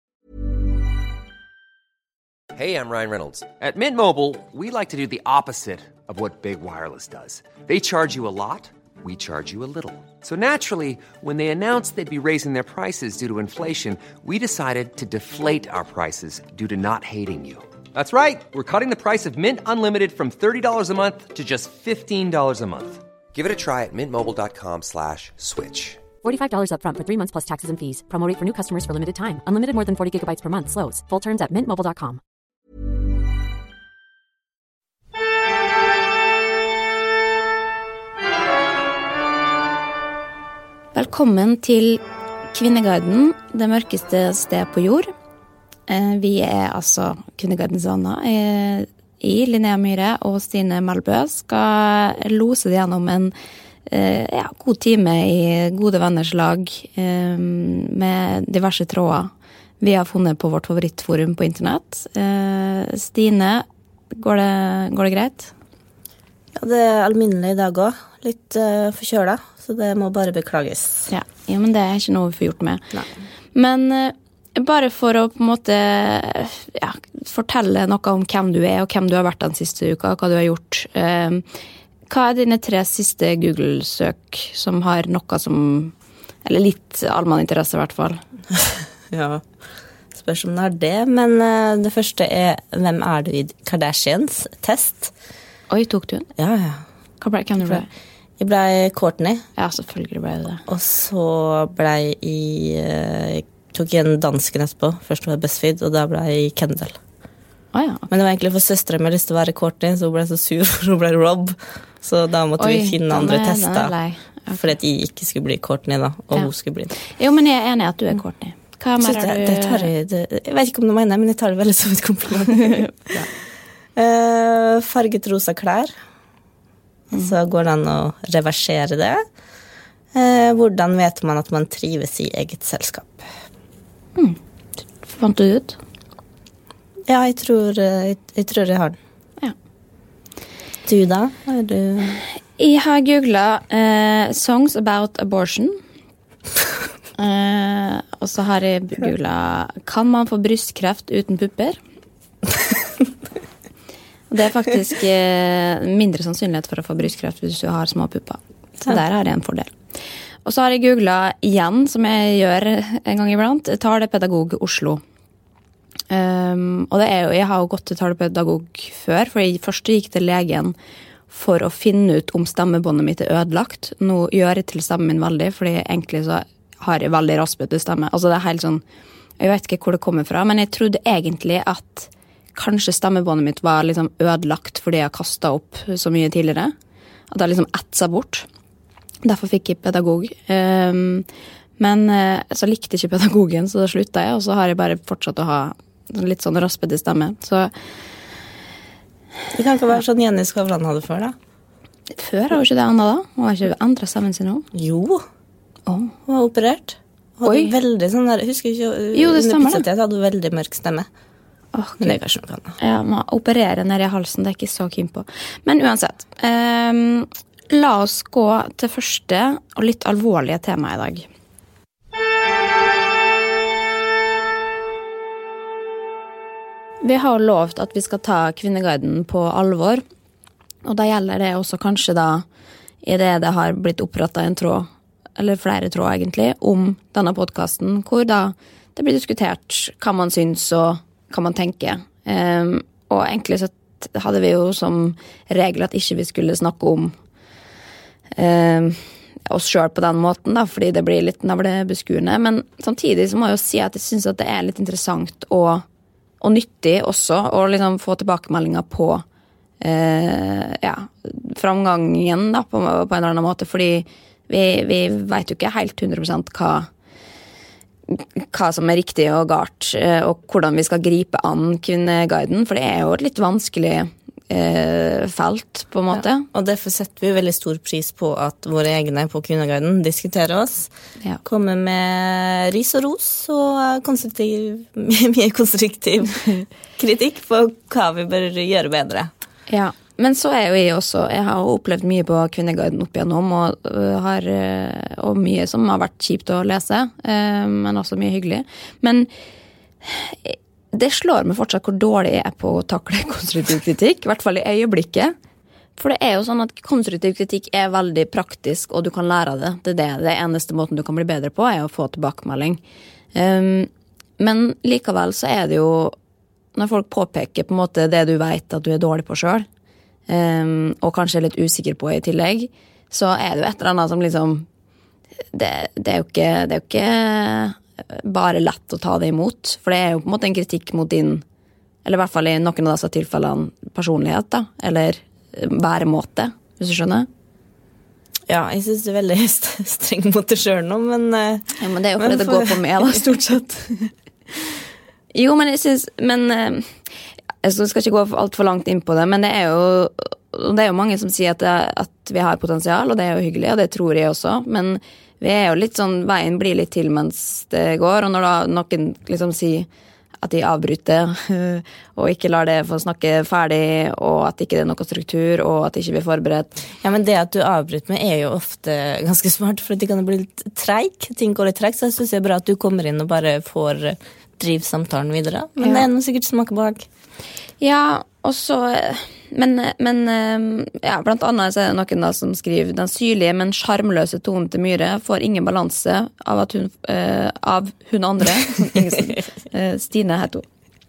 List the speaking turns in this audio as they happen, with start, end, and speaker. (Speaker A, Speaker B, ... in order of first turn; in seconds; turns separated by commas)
Speaker A: 2.5-26.0, Speaker B: 26.2-32.2, Speaker C: 40.9-42.0, Speaker C: 42.5-45.1, Speaker C: 45.9-53.3, Speaker C: 53.9-65.5, Speaker D: 66.5-71.1, Speaker C: 71.1-73.0, Speaker C: 73.5-81.5, Speaker C: 82.1-85.9, Speaker C: 86.4-88.2, Speaker D: 89.1-89.4, Speaker D: 90.1-95.1, Speaker C: 95.7-96.3, Speaker D: 96.4-96.8, Speaker C: 97.2-97.9, Speaker D: 98.4-99.4, Speaker C: 99.6-100.6, Speaker D: 100.7-107.0, Speaker C: 107.7-108.1, Speaker D: 108.1-113.9, Speaker C: 112.6-114.7, Speaker D: 114.5-116.9, Speaker C: 117.0-119.9, Speaker D: 119.0-123.1, Speaker C: 122.6-123.3, Speaker D: 124.0-125.9, Speaker D: 127.1-129.2, Speaker D: 130.1-133.3, Speaker C: 135.1-135.8, Speaker D: 137.1-139.0, Speaker D: 140.8-142.2, Speaker C: 142.6-145.8, Speaker C: 147.2-151.8, Speaker C: 154.3-159.8, Speaker C: 160.4-165.0, Speaker C: 166.1-170.8, Speaker C: 171.3-178.8, Speaker C: 179.4-186.7, Speaker C: 187.3-188.5, Speaker C: 189.2-191.2, Speaker C: 191.8-197.7, Speaker D: 199.5-201.4, Speaker C: 202.1-204.7, Speaker D: 204.7-205.2, Speaker C: 205.9-206.1, Speaker D: 206.3-211.1, Speaker C: 207.4-207.7, Speaker C: 209.1-209.9, Speaker C: 211.7-212.2, Speaker D: 212.0-212.8, Speaker C: 212.8-221.3, Speaker C: 227.0-230.0, Speaker C: 230.8-232.4, Speaker C: 233.0-247.2, Speaker C: 248.3-255.8, Speaker C: 256.4-259.2, Speaker C: 259.8-266.9, Speaker C: 268.1-276.5, Speaker D: 276.1-280.9, Speaker D: 281.4-289.3, Speaker C: 289.7-299.3, Speaker C: 300.0-305.4, Speaker C: 306.0-312.8, Speaker C: 313.3-316.1, Speaker C: 316.8-319.6, Speaker C: 320.3-324.6, Speaker C: 325.5-331.4, Speaker C: 332.0-337.3, Speaker D: 338.5-343.3, Speaker C: 341.8-344.1, Speaker C: 345.3-346.9, Speaker C: 347.6-359.9, Speaker C: 360.4-366.7, Speaker D: 367.0-377.1, Speaker C: 375.8-376.1, Speaker C: 377.8-390.6, Speaker D: 388.9-389.4